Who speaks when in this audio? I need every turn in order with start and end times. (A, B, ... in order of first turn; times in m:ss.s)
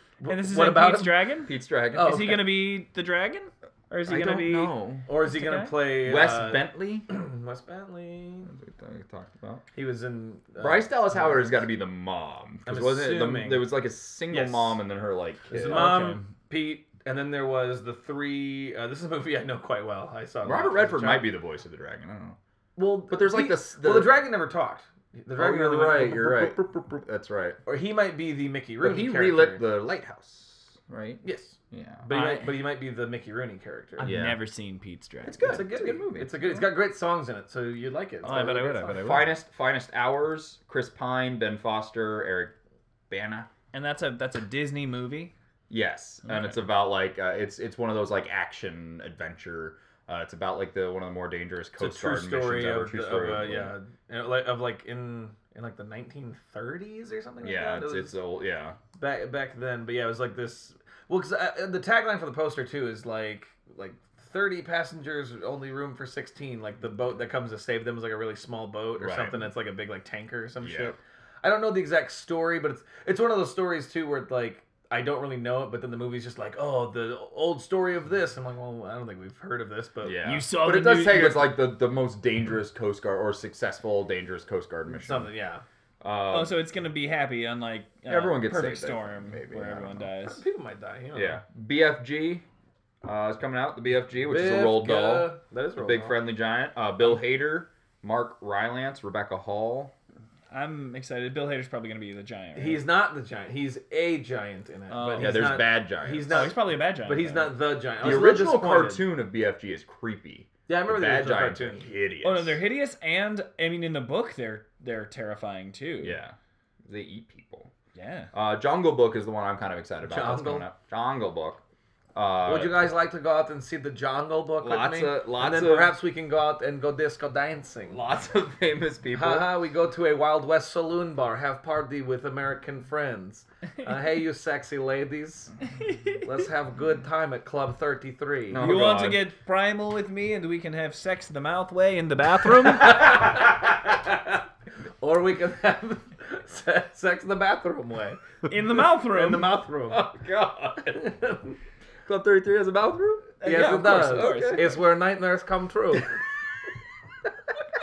0:00.2-0:01.3 A
0:00.3-0:05.8 B
0:01.4-0:02.3 C
0:01.9-0:02.5 A
0:04.1-0:05.1 C
0:05.0-0:08.5 A
0:06.0-0:07.1 C
0:08.5-0:09.6 C
0:09.7-0:11.6 A
0:10.6-0:16.0 C
0:12.6-0:13.7 A
0:14.3-0:14.8 B
0:15.5-0:21.3 A
0:15.6-0:16.2 B
0:20.4-0:22.4 C
0:22.8-0:26.6 A
0:23.1-0:24.2 C
0:25.4-0:27.6 C
0:27.6-0:29.6 A
0:28.8-0:32.5 C
0:31.2-0:34.1 A
0:34.0-0:35.6 B
0:34.0-0:34.4 C
0:35.2-0:36.6 C
0:35.4-0:39.1 A
0:38.2-0:39.3 B
0:38.9-0:42.5 C
0:43.1-0:43.5 C
0:43.7-0:45.3 B
0:45.7-0:53.7 C
0:46.2-0:46.6 B
0:51.8-0:58.1 A
0:57.4-0:58.8 C
0:59.0-1:20.3 A
1:09.0-1:09.4 C
1:10.6-1:10.9 C
1:20.0-1:25.3 C
1:20.2-1:21.6 B
1:24.9-1:25.6 A
1:26.0-1:26.6 C
1:26.3-1:30.4 B
1:28.1-1:30.1 C
1:30.2-1:31.4 A
1:31.1-1:32.4 C
1:33.0-1:39.9 C
1:34.3-1:36.2 A
1:40.5-1:42.8 B
1:42.6-1:49.0 A
1:44.9-1:45.6 B
1:45.2-1:46.5 C
1:46.3-1:47.6 B
1:48.0-1:52.6 C
1:50.7-1:51.8 A
1:52.2-1:56.2 B
1:56.0-1:57.7 C
1:57.9-1:58.3 B
1:58.3-2:01.6 C
2:00.0-2:00.7 A
2:02.1-2:02.7 C
2:02.4-2:08.0 A
2:04.6-2:05.9 C
2:07.9-2:09.5 C
2:09.1-2:15.5 A
2:15.8-2:16.2 B
2:16.2-2:18.7 A
2:18.5-2:19.2 C
2:18.6-2:23.4 B
2:22.7-2:24.4 A
2:25.0-2:28.2 A
2:28.5-2:29.5 B
2:29.0-2:30.0 A
2:29.9-2:31.0 C
2:30.9-2:31.5 A
2:32.0-2:34.7 C
2:33.4-2:34.8 B
2:33.4-2:36.2 A